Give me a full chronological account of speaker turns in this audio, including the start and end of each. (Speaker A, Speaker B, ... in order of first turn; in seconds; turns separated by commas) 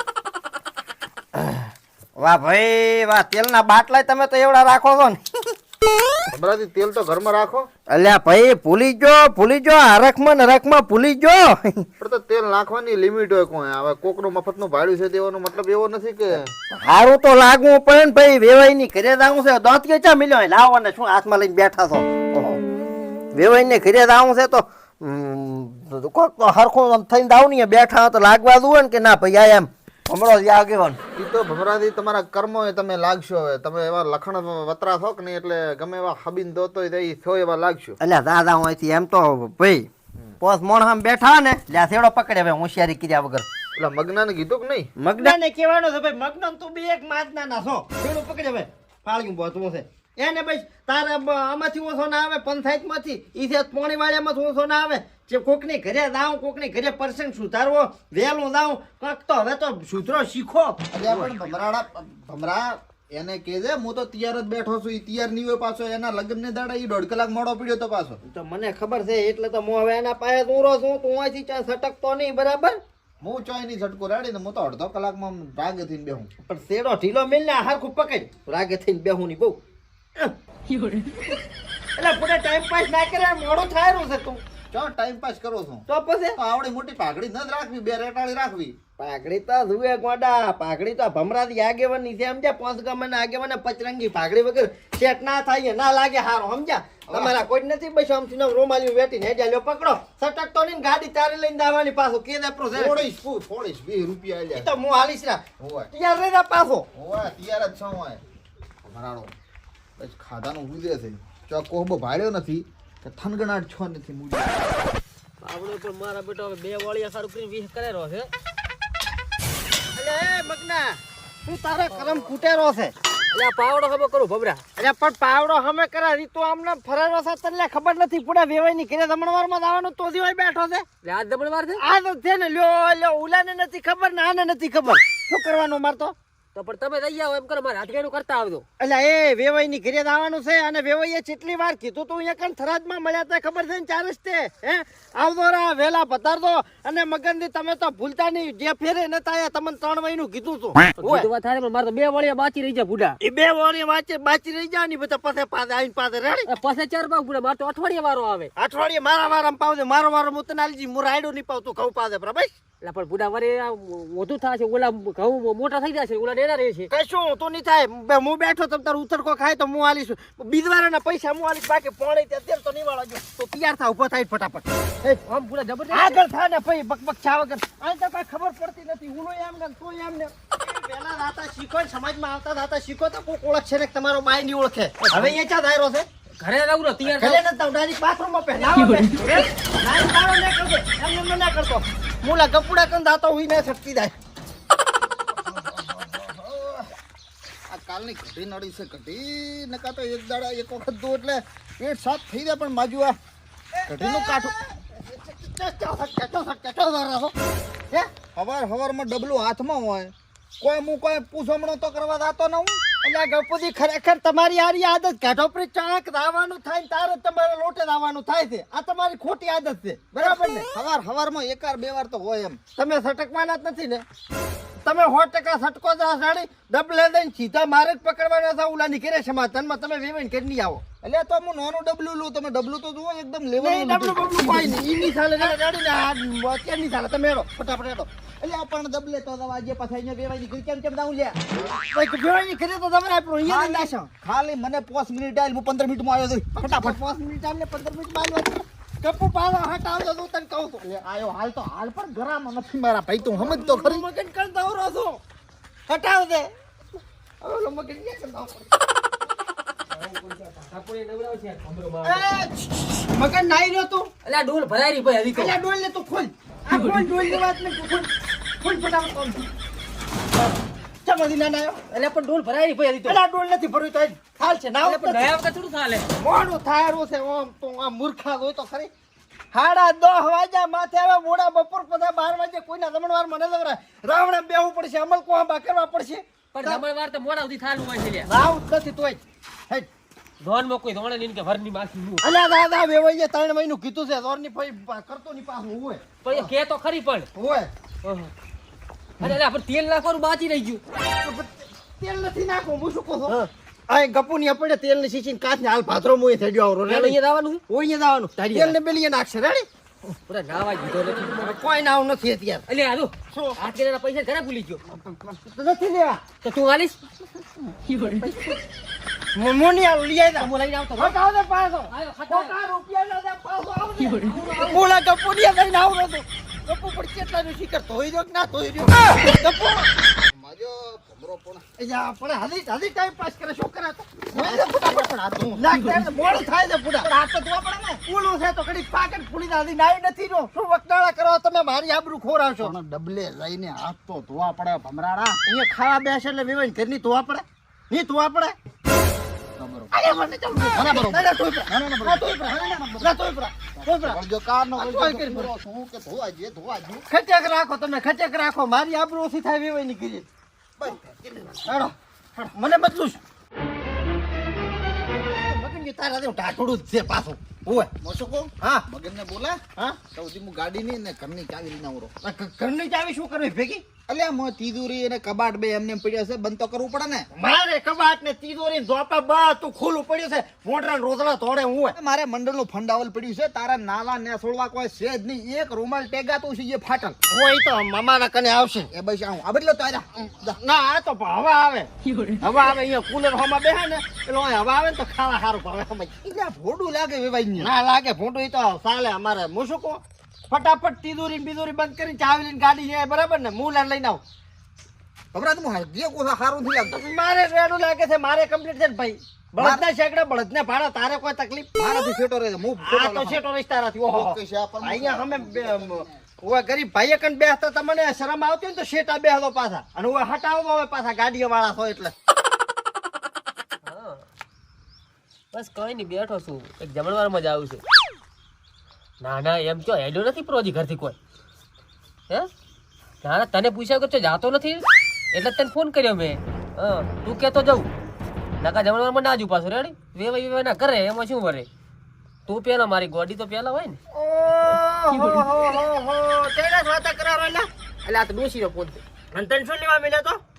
Speaker A: 1.3-5.2, Speaker B: 6.3-7.7, Speaker A: 7.9-11.9, Speaker B: 12.0-16.5, Speaker A: 16.7-22.6, Speaker A: 23.3-31.0, Speaker B: 31.1-38.0, Speaker A: 38.0-39.9, Speaker A: 40.4-43.5, Speaker B: 43.7-44.9, Speaker A: 45.0-61.3, Speaker B: 60.9-68.2, Speaker A: 68.2-72.8, Speaker B: 73.2-76.3, Speaker A: 76.4-79.6, Speaker C: 80.7-81.2, Speaker A: 82.0-84.4, Speaker B: 84.7-88.8, Speaker A: 85.9-86.4, Speaker A: 89.0-103.0, Speaker B: 97.1-97.3, Speaker B: 102.7-104.7, Speaker A: 104.5-106.8, Speaker B: 105.6-105.9, Speaker B: 106.9-108.2, Speaker B: 108.8-109.3, Speaker B: 110.0-114.6, Speaker C: 115.4-118.3, Speaker A: 119.9-122.9, Speaker C: 123.3-124.6, Speaker A: 124.8-130.8, Speaker C: 131.0-131.8, Speaker A: 131.8-136.1, Speaker C: 136.5-138.6, Speaker A: 138.8-151.3, Speaker C: 151.0-153.2, Speaker A: 153.2-156.5, Speaker C: 156.4-158.5, Speaker A: 158.6-162.5, Speaker C: 162.8-166.9, Speaker A: 166.9-175.2, Speaker C: 175.2-176.2, Speaker A: 175.9-186.1, Speaker C: 185.0-185.3, Speaker C: 186.4-187.4, Speaker A: 187.0-194.1, Speaker C: 188.7-189.4, Speaker B: 195.3-196.9, Speaker B: 197.7-203.2, Speaker A: 203.7-207.3, Speaker B: 203.9-204.5, Speaker B: 208.3-212.8, Speaker A: 213.0-220.7, Speaker B: 220.2-222.6, Speaker A: 222.8-224.0, Speaker A: 224.8-230.8, Speaker B: 231.0-235.6, Speaker A: 233.6-238.1, Speaker B: 238.4-241.3, Speaker A: 241.6-244.1, Speaker B: 243.4-247.0, Speaker A: 246.6-251.0, Speaker B: 251.0-254.0, Speaker A: 253.2-255.2, Speaker A: 255.9-256.5, Speaker A: 257.4-258.7, Speaker C: 259.9-262.3, Speaker A: 262.0-264.1, Speaker C: 264.2-265.5, Speaker A: 265.3-268.1, Speaker C: 266.7-267.4, Speaker A: 268.6-269.5, Speaker A: 271.0-271.8, Speaker C: 271.9-273.2, Speaker A: 273.0-275.3, Speaker C: 274.8-276.1, Speaker A: 276.1-278.9, Speaker A: 279.5-286.8, Speaker C: 286.5-288.3, Speaker A: 288.2-289.9, Speaker C: 290.4-292.2, Speaker A: 292.2-296.5, Speaker C: 296.2-297.3, Speaker A: 297.3-297.7, Speaker C: 298.0-298.3, Speaker C: 299.2-300.8, Speaker A: 301.2-303.4, Speaker A: 303.9-307.2, Speaker C: 306.9-307.6, Speaker A: 307.7-309.6, Speaker C: 308.4-308.7, Speaker C: 310.3-311.6, Speaker A: 311.1-312.6, Speaker C: 312.7-314.8, Speaker A: 313.3-313.6, Speaker A: 315.1-316.2, Speaker C: 316.4-317.0, Speaker C: 317.8-318.6, Speaker A: 319.3-329.9, Speaker C: 320.4-321.2, Speaker C: 321.9-322.5, Speaker C: 323.9-324.8, Speaker B: 330.2-331.6, Speaker A: 331.8-342.7, Speaker B: 334.3-337.1, Speaker C: 335.7-336.0, Speaker B: 342.6-345.4, Speaker A: 345.4-348.6, Speaker B: 349.6-349.9, Speaker A: 349.9-354.2, Speaker B: 350.7-353.1, Speaker B: 353.8-357.0, Speaker A: 354.8-355.5, Speaker A: 357.1-360.2, Speaker B: 360.8-361.7, Speaker A: 361.6-363.2, Speaker A: 365.2-367.9, Speaker B: 367.9-369.6, Speaker B: 370.1-372.1, Speaker A: 372.2-373.8, Speaker B: 374.1-377.3, Speaker A: 377.3-381.9, Speaker B: 381.9-387.2, Speaker A: 387.3-388.9, Speaker B: 388.9-390.4, Speaker A: 390.4-391.9, Speaker C: 392.1-392.4, Speaker A: 392.4-396.2, Speaker B: 396.2-397.7, Speaker A: 397.6-404.2, Speaker B: 405.3-407.0, Speaker A: 406.8-411.7, Speaker B: 409.6-409.8, Speaker B: 411.8-413.4, Speaker A: 412.8-422.1, Speaker B: 414.1-416.1, Speaker C: 423.8-424.2, Speaker C: 425.5-427.8, Speaker C: 429.2-431.1, Speaker C: 433.2-437.9, Speaker C: 438.6-441.7, Speaker C: 442.5-444.0, Speaker A: 444.1-447.7, Speaker C: 445.1-445.6, Speaker C: 448.0-449.0, Speaker A: 449.3-450.4